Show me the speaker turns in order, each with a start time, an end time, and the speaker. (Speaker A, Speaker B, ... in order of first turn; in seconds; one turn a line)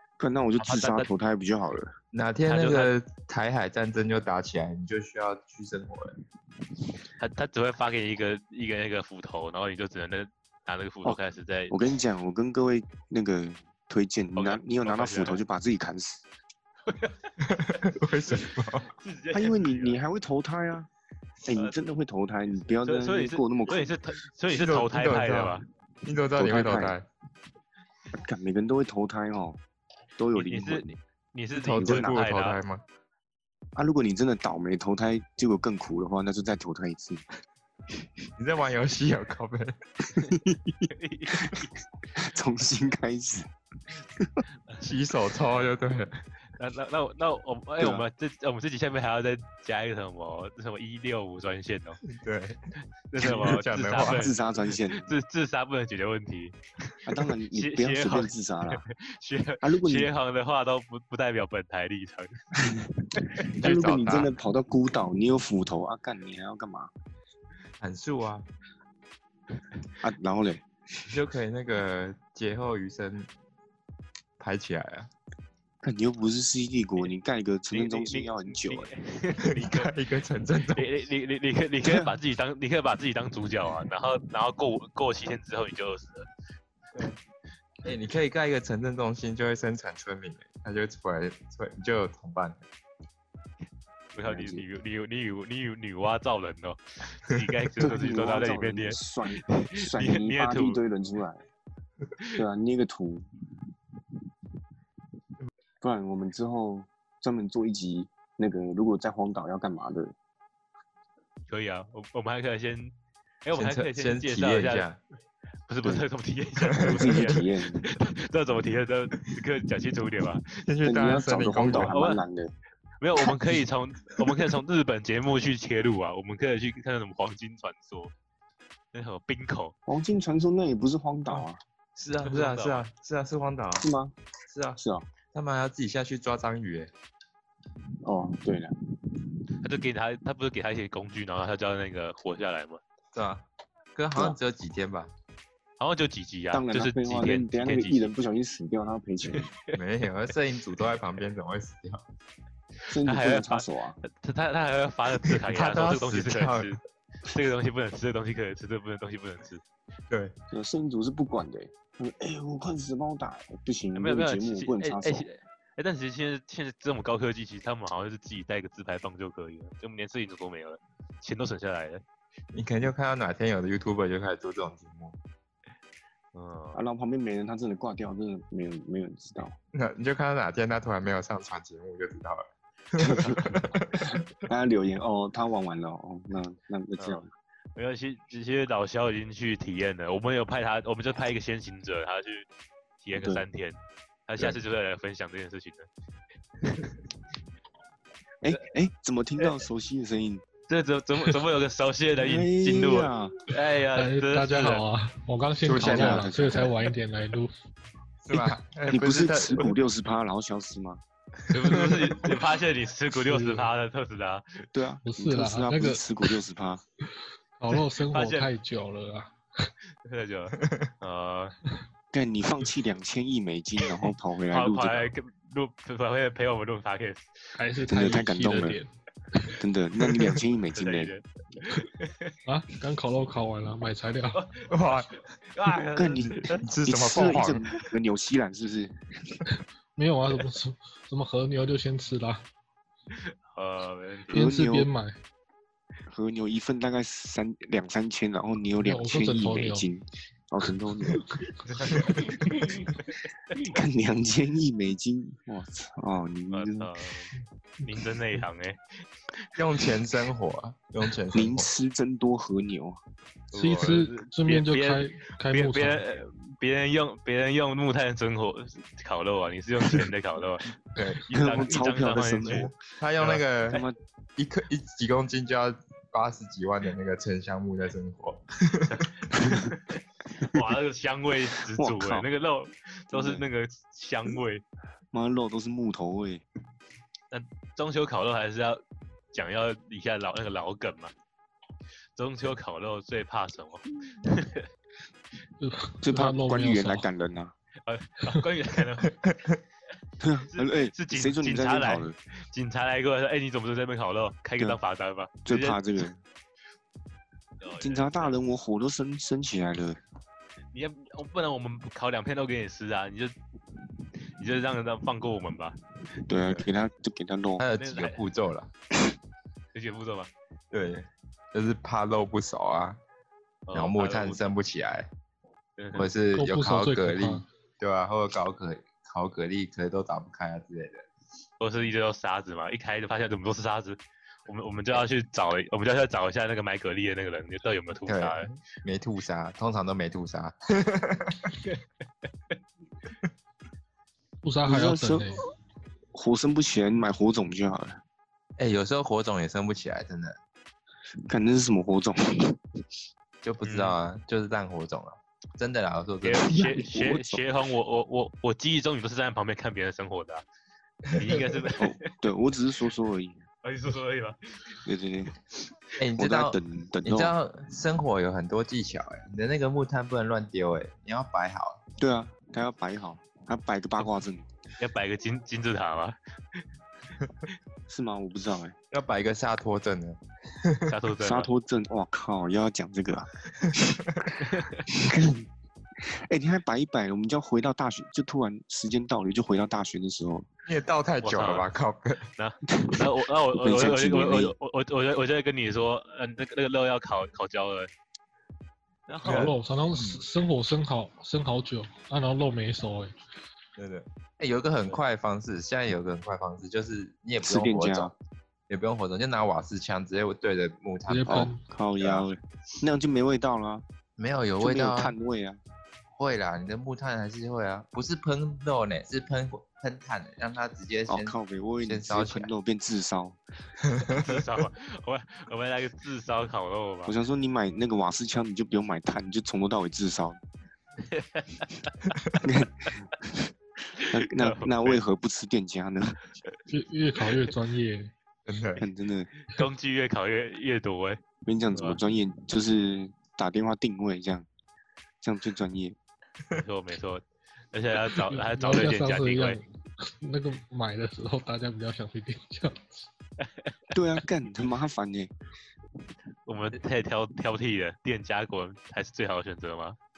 Speaker A: 0.2-2.0
Speaker B: 0.6-1.1
Speaker C: 2.1-6.2
Speaker B: 2.5-2.9
Speaker B: 7.2-11.7
Speaker A: 11.7-16.2
Speaker B: 14.4-15.4
Speaker B: 16.9-17.3
Speaker C: 17.4-18.9
Speaker B: 18.9-20.0
Speaker A: 19.3-20.9
Speaker A: 21.4-24.0
Speaker B: 22.8-25.6
Speaker C: 24.5-27.1
Speaker A: 26.4-26.9
Speaker A: 28.1-29.6
Speaker A: 30.2-30.9
Speaker B: 30.4-32.6
Speaker C: 31.6-32.8
Speaker A: 31.8-32.1
Speaker A: 33.8-37.2
Speaker C: 38.4-39.8
Speaker A: 40.2-41.6
Speaker B: 40.9-41.7
Speaker A: 42.1-43.5
Speaker A: 44.2-44.4
Speaker C: 44.8-46.2
Speaker B: 46.6-52.0
Speaker A: 47.8-48.0
Speaker C: 52.1-54.3
Speaker B: 53.1-62.4
Speaker A: 54.0-55.1
Speaker A: 57.1-58.8
Speaker A: 59.6-60.1
Speaker A: 62.6-66.9
Speaker B: 63.4-63.7
Speaker C: 63.6-64.3
Speaker C: 67.8-68.5
Speaker A: 70.0-71.1
Speaker C: 71.1-73.3
Speaker C: 74.4-75.1
Speaker A: 75.8-78.9
Speaker B: 77.7-79.9
Speaker C: 79.5-80.9
Speaker B: 80.7-86.3
Speaker A: 81.8-82.1
Speaker C: 87.8-92.6
Speaker B: 94.1-100.8
Speaker A: 94.2-94.7
Speaker A: 97.8-101.4
Speaker A: 102.3-103.3
Speaker A: 105.8-110.2
Speaker B: 111.5-114.9
Speaker C: 113.5-115.0
Speaker B: 115.7-120.6
Speaker C: 116.8-117.2
Speaker A: 116.8-117.9
Speaker C: 120.6-122.0
Speaker A: 120.8-122.5
Speaker B: 121.7-122.2
Speaker B: 123.0-128.1
Speaker B: 128.9-129.8
Speaker A: 129.9-131.6
Speaker C: 132.0-133.9
Speaker B: 132.2-132.8
Speaker A: 133.8-134.2
Speaker C: 134.5-134.8
Speaker A: 134.8-135.1
Speaker C: 135.3-136.9
Speaker A: 138.0-138.8
Speaker B: 139.6-142.8
Speaker C: 143.1-145.1
Speaker B: 145.8-148.1
Speaker A: 146.5-149.5
Speaker B: 149.3-149.7
Speaker C: 149.7-152.0
Speaker A: 152.9-154.0
Speaker B: 153.0-156.8
Speaker C: 155.5-156.8
Speaker B: 157.3-159.6
Speaker A: 160.5-165.3
Speaker B: 163.9-172.0
Speaker C: 172.5-175.2
Speaker B: 176.3-176.8
Speaker A: 176.7-179.6
Speaker C: 179.7-184.1
Speaker A: 183.0-183.6
Speaker B: 183.4-183.6
Speaker A: 184.4-187.3
Speaker B: 187.0-192.5
Speaker B: 193.0-195.9
Speaker A: 193.1-193.4
Speaker B: 196.7-196.9
Speaker A: 198.4-200.4
Speaker B: 200.7-204.8
Speaker A: 202.2-203.4
Speaker D: 203.9-207.5
Speaker C: 205.7-206.7
Speaker A: 205.8-206.9
Speaker C: 208.2-209.7
Speaker A: 208.9-211.0
Speaker B: 211.5-214.7
Speaker C: 211.5-212.3
Speaker D: 213.2-213.7
Speaker A: 214.7-216.8
Speaker D: 215.1-216.3
Speaker D: 217.6-219.7
Speaker B: 218.1-218.5
Speaker B: 220.0-221.5
Speaker C: 220.6-220.9
Speaker A: 222.1-225.1
Speaker B: 223.9-227.6
Speaker D: 227.6-229.6
Speaker A: 227.9-228.8
Speaker A: 229.6-231.1
Speaker B: 230.7-232.3
Speaker D: 232.4-234.4
Speaker B: 234.3-236.6
Speaker C: 234.7-235.2
Speaker A: 235.9-239.4
Speaker C: 236.6-237.6
Speaker D: 240.0-242.5
Speaker B: 243.1-244.4
Speaker D: 244.3-245.2
Speaker A: 244.3-244.9
Speaker A: 246.1-251.4
Speaker D: 248.8-249.9
Speaker D: 251.1-252.7
Speaker B: 251.7-253.2
Speaker A: 253.5-256.9
Speaker B: 256.5-257.3
Speaker B: 257.8-259.1
Speaker C: 259.6-261.7
Speaker A: 261.3-263.0
Speaker B: 263.5-270.7
Speaker D: 263.5-266.0
Speaker C: 270.9-271.2
Speaker B: 271.3-273.8
Speaker A: 271.3-272.8
Speaker C: 272.5-273.8
Speaker A: 273.7-274.0
Speaker C: 274.4-279.0
Speaker B: 278.9-284.6
Speaker A: 281.8-282.3
Speaker A: 283.1-283.4
Speaker A: 285.1-286.4
Speaker B: 287.3-288.8
Speaker B: 289.3-291.1
Speaker B: 292.2-294.7
Speaker D: 295.6-297.1
Speaker A: 296.0-297.5
Speaker B: 297.9-299.2
Speaker A: 300.2-302.2
Speaker B: 300.5-305.8
Speaker A: 305.4-306.2
Speaker B: 307.6-308.4
Speaker A: 307.8-310.0
Speaker B: 310.7-313.4
Speaker B: 314.2-315.8
Speaker A: 316.3-317.7
Speaker B: 316.3-316.6
Speaker C: 317.6-318.7
Speaker B: 317.8-318.2
Speaker B: 319.7-320.3
Speaker C: 320.7-323.0
Speaker B: 323.7-324.4
Speaker C: 323.7-325.1
Speaker B: 325.8-326.1
Speaker C: 325.9-331.1
Speaker D: 326.3-327.5
Speaker B: 331.6-338.5
Speaker C: 338.1-341.6
Speaker D: 344.4-345.4
Speaker A: 344.7-345.4
Speaker A: 346.1-348.0
Speaker C: 348.6-350.4
Speaker A: 351.3-352.6
Speaker C: 353.4-356.5
Speaker B: 353.6-354.0
Speaker B: 356.2-360.4
Speaker A: 356.5-357.4
Speaker C: 361.1-361.4
Speaker B: 361.2-361.9
Speaker A: 361.8-363.4
Speaker B: 363.6-364.8
Speaker A: 364.9-365.3
Speaker C: 366.0-371.8
Speaker A: 366.2-367.3
Speaker A: 372.0-374.5
Speaker B: 374.8-376.7
Speaker A: 377.9-378.8
Speaker C: 378.9-380.9
Speaker B: 380.9-381.5
Speaker A: 381.2-383.4
Speaker C: 383.6-384.2
Speaker A: 384.3-385.4
Speaker B: 384.4-384.8
Speaker A: 386.0-390.5
Speaker C: 390.7-392.3
Speaker B: 391.2-391.7
Speaker B: 392.4-397.9
Speaker A: 392.7-393.0
Speaker A: 393.6-394.6
Speaker B: 399.1-399.6
Speaker D: 399.2-403.1
Speaker C: 399.2-400.2
Speaker C: 403.8-408.1
Speaker A: 407.4-408.1
Speaker C: 408.7-412.3
Speaker D: 411.1-411.6
Speaker A: 411.3-413.8
Speaker C: 414.2-415.2
Speaker A: 414.6-415.6
Speaker C: 416.1-422.5
Speaker A: 421.1-423.4
Speaker C: 423.9-424.4
Speaker B: 424.1-427.1
Speaker A: 427.1-430.4
Speaker B: 431.1-431.9
Speaker A: 432.4-433.4
Speaker B: 434.0-435.0
Speaker A: 434.0-436.2
Speaker D: 436.7-438.1
Speaker C: 438.5-438.8
Speaker A: 438.8-439.3
Speaker B: 439.5-441.2
Speaker A: 441.4-444.5
Speaker B: 441.7-442.0
Speaker A: 445.2-446.0
Speaker B: 446.5-449.6
Speaker D: 448.3-453.1
Speaker A: 453.9-455.3
Speaker B: 456.5-460.0